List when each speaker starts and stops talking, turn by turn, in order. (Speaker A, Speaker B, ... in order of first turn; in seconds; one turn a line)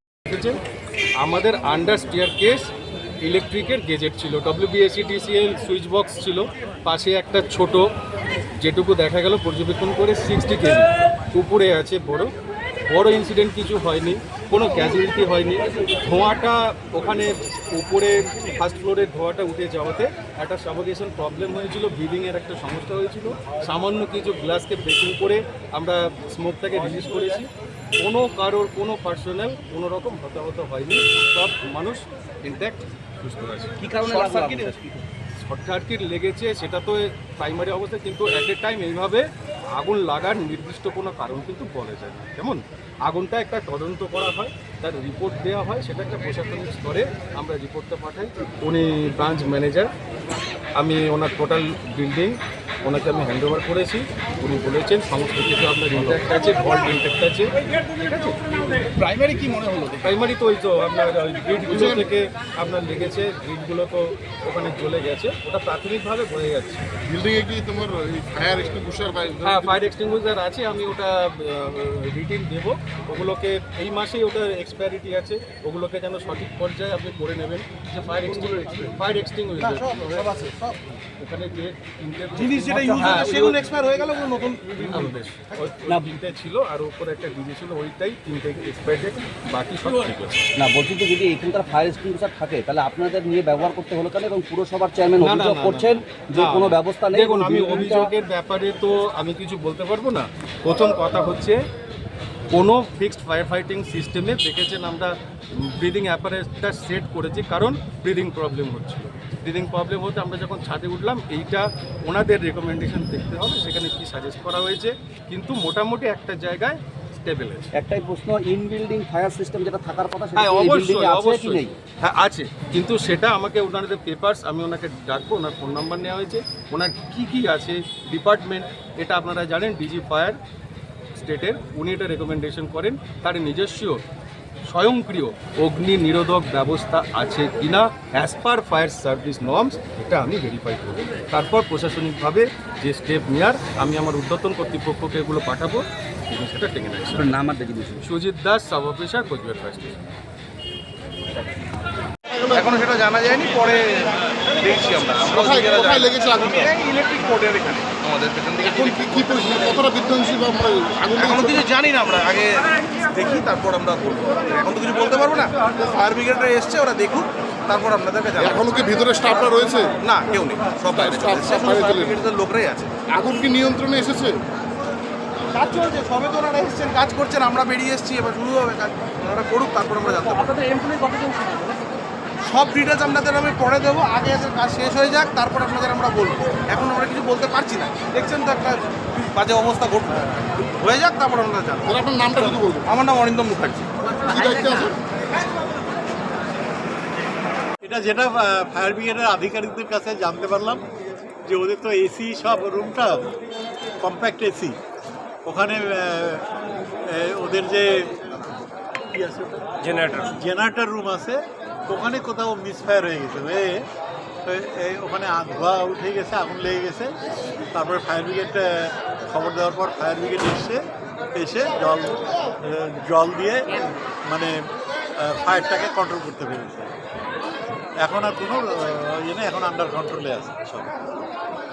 Speaker A: 0.3-0.6
Speaker A: 1.2-2.7
Speaker A: 3.2-7.9
Speaker A: 8.6-12.3
Speaker A: 12.9-27.5
Speaker A: 28.0-34.7
Speaker B: 33.8-35.0
Speaker A: 35.4-49.9
Speaker A: 50.8-58.9
Speaker C: 59.0-60.0
Speaker A: 60.0-66.8
Speaker D: 61.7-62.0
Speaker D: 67.1-69.7
Speaker A: 69.4-80.3
Speaker C: 79.6-80.8
Speaker A: 81.2-83.6
Speaker C: 82.4-85.5
Speaker A: 84.8-90.5
Speaker B: 85.9-86.2
Speaker B: 90.6-98.1
Speaker A: 95.2-101.6
Speaker A: 102.5-105.1
Speaker A: 105.7-117.7
Speaker B: 117.7-121.8
Speaker A: 120.3-130.4
Speaker A: 131.2-134.0
Speaker A: 134.7-147.3
Speaker B: 147.2-148.1
Speaker A: 148.0-150.0
Speaker C: 152.5-173.1
Speaker D: 155.3-156.6
Speaker D: 158.9-161.6
Speaker D: 168.4-169.9
Speaker D: 170.9-172.2
Speaker D: 173.2-174.4
Speaker C: 175.5-181.8
Speaker C: 182.4-194.9
Speaker D: 191.9-192.8
Speaker D: 194.4-194.9
Speaker E: 197.8-200.8
Speaker E: 201.4-203.2
Speaker E: 204.0-204.8
Speaker E: 205.5-206.4
Speaker E: 207.1-207.9
Speaker E: 209.1-213.8
Speaker E: 214.5-217.1
Speaker E: 217.7-220.8
Speaker E: 221.4-224.5
Speaker E: 225.2-226.9
Speaker E: 228.0-230.9